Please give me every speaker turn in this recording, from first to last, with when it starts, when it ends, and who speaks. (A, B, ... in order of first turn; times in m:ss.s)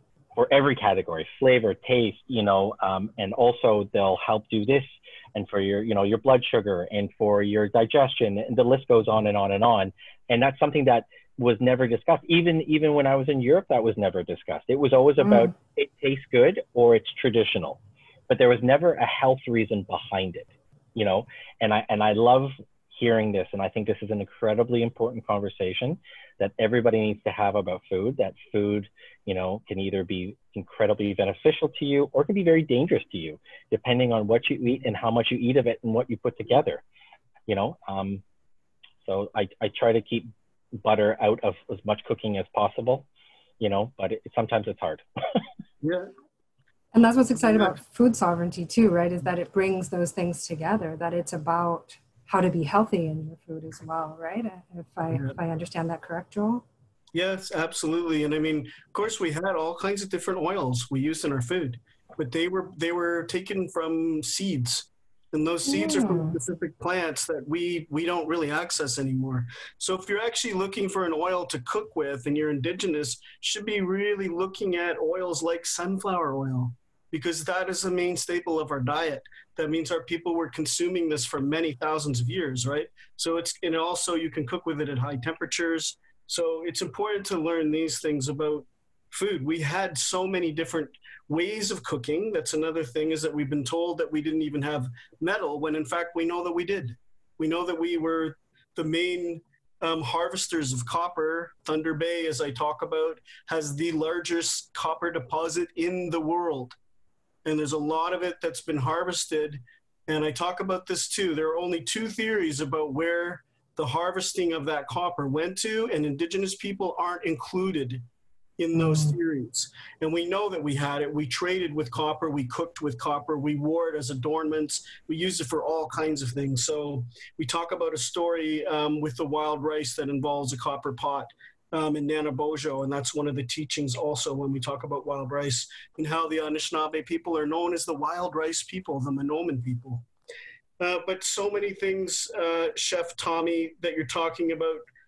0:00.4-0:36.8 A
0:15.2-0:15.5 B
0:37.5-0:38.2 A
0:39.0-0:43.1 A
0:43.6-0:45.0 A
0:45.8-0:46.1 C
0:46.9-0:56.6 B
0:47.5-0:47.7 C
0:57.1-1:46.8 C
1:05.7-1:06.4 B
1:47.4-1:58.0 C
1:58.6-2:20.1 C
1:58.8-1:59.2 B
2:20.8-2:24.8 C